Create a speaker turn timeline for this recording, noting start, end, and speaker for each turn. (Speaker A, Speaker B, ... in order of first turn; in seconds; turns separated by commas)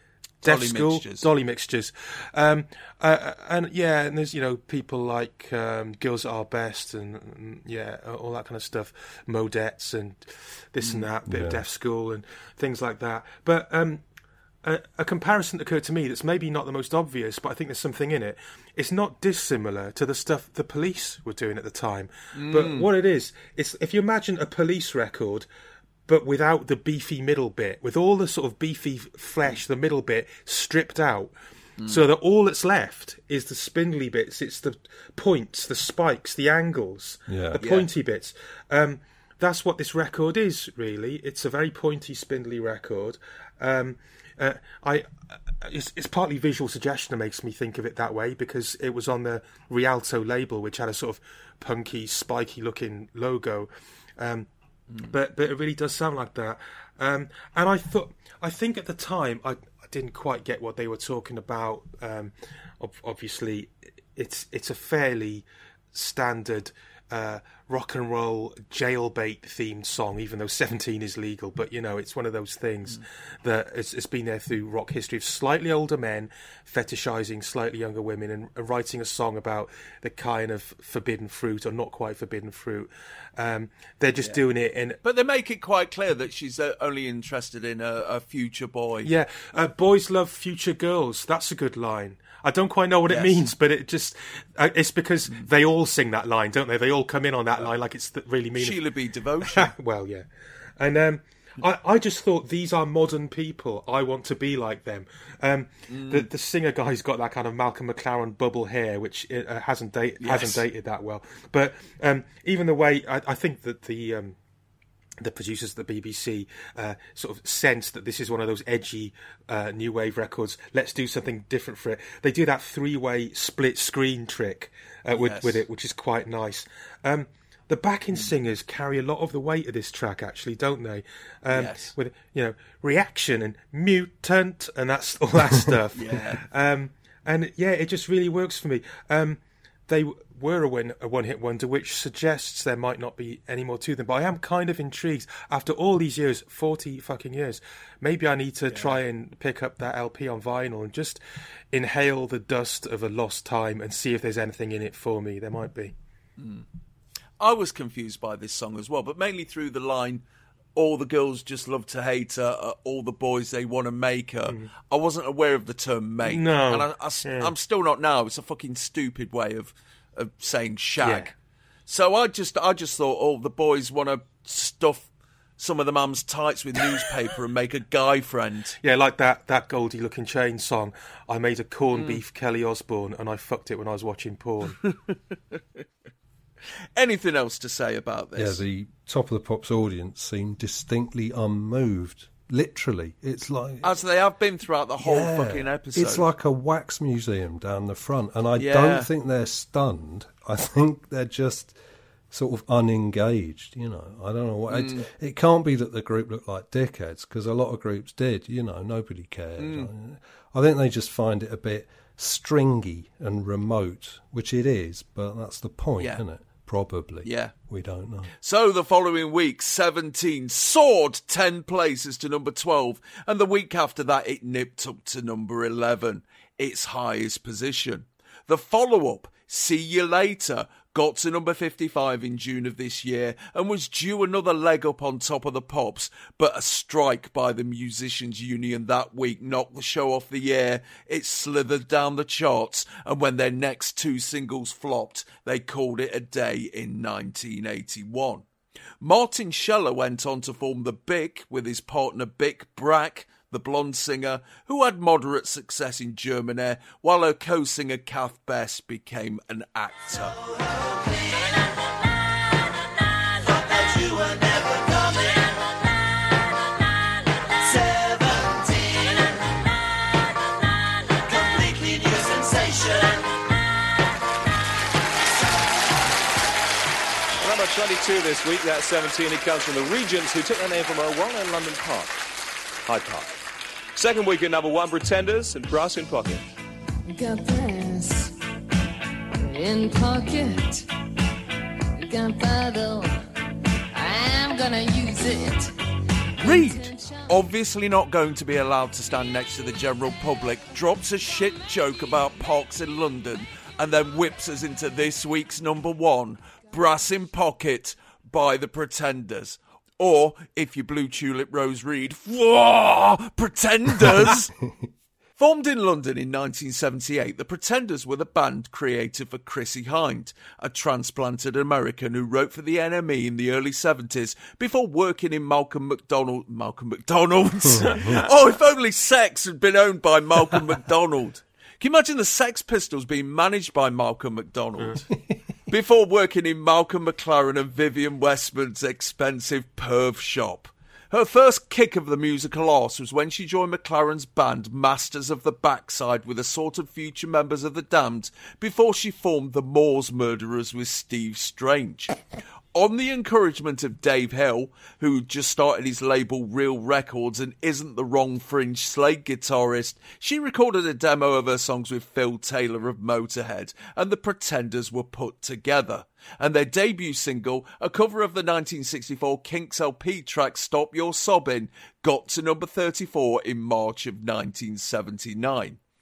Speaker A: 0.4-14.0, Speaker B: 0.4-1.3, Speaker C: 11.3-11.6, Speaker A: 14.6-25.5, Speaker B: 22.3-22.9, Speaker A: 26.1-31.3, Speaker A: 31.9-45.1, Speaker C: 37.3-37.6, Speaker B: 37.6-37.9, Speaker A: 45.6-54.5, Speaker A: 55.0-85.0, Speaker B: 85.0-89.1, Speaker A: 89.0-98.8, Speaker B: 93.1-93.3, Speaker B: 98.6-99.7, Speaker A: 99.5-100.2, Speaker A: 100.8-114.3, Speaker B: 105.9-106.3, Speaker B: 110.2-110.6, Speaker A: 115.2-151.2, Speaker B: 125.1-125.6, Speaker B: 131.5-131.9, Speaker B: 135.9-136.4, Speaker B: 148.7-149.0, Speaker A: 151.7-155.9, Speaker B: 156.4-156.6, Speaker B: 157.4-160.2, Speaker B: 160.8-171.3, Speaker A: 166.2-167.5, Speaker A: 171.0-171.3, Speaker B: 171.9-175.1, Speaker B: 175.6-178.8, Speaker A: 178.8-184.8, Speaker B: 181.9-182.2, Speaker B: 184.8-185.1, Speaker B: 186.9-188.6, Speaker C: 188.3-193.9, Speaker B: 193.8-196.2, Speaker C: 195.0-201.8, Speaker B: 198.6-199.1, Speaker C: 202.3-218.3, Speaker B: 204.7-205.0, Speaker B: 209.6-209.9, Speaker B: 217.2-217.5, Speaker B: 218.4-248.4, Speaker B: 249.0-260.4, Speaker D: 263.4-265.4, Speaker D: 267.7-269.4, Speaker D: 271.3-273.2, Speaker E: 277.4-282.3, Speaker E: 282.9-283.4, Speaker E: 283.9-286.4, Speaker D: 287.2-288.3, Speaker D: 289.4-290.8, Speaker D: 292.0-293.1, Speaker D: 294.0-295.7, Speaker B: 296.4-314.5, Speaker D: 296.6-297.0, Speaker C: 314.0-314.7, Speaker B: 315.4-335.0, Speaker C: 327.8-328.1, Speaker B: 335.7-352.1, Speaker B: 352.7-375.8